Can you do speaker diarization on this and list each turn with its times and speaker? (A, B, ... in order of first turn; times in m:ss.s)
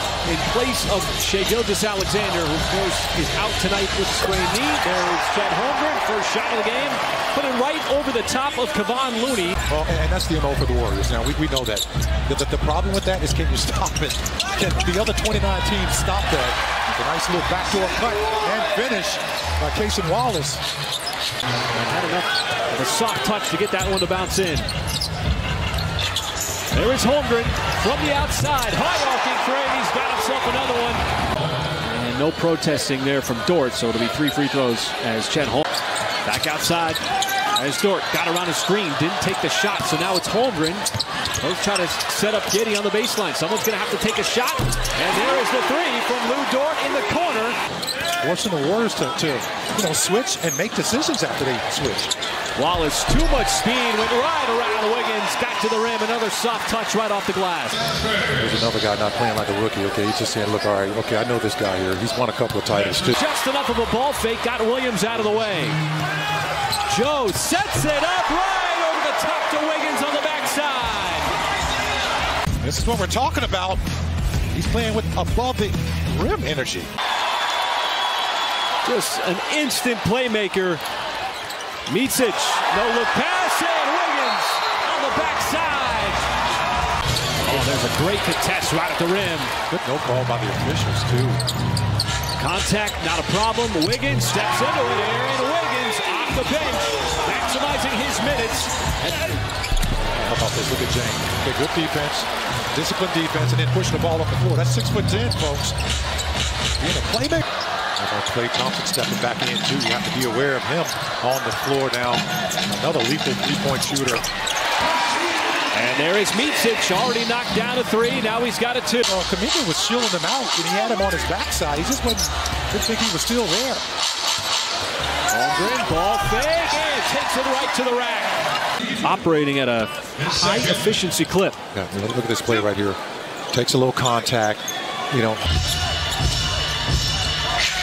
0:00.2-0:09.6 A
0:09.7-0:20.6 B
0:21.7-0:24.7 A
0:26.7-0:31.0 A
0:31.8-0:35.6 A
0:36.2-0:37.0 A
0:37.6-0:40.9 A
0:41.4-0:47.6 A
0:48.2-0:52.1 B
0:52.6-0:57.8 A
0:58.3-1:03.2 B
1:03.0-1:05.8 A
1:06.9-1:11.3 A
1:12.6-1:13.8 B
1:14.5-1:16.9 B
1:18.8-1:20.8 A
1:21.9-1:26.2 A
1:27.4-1:29.5 A
1:29.7-1:31.4 B
1:32.4-1:39.4 A
1:40.0-1:45.7 B
1:46.8-1:47.4 B
1:48.0-1:54.2 B
1:55.7-1:59.0 A
1:59.0-2:03.8 B
2:05.3-2:08.4 A
2:09.0-2:11.6 A
2:11.7-2:13.0 B
2:13.5-2:15.4 B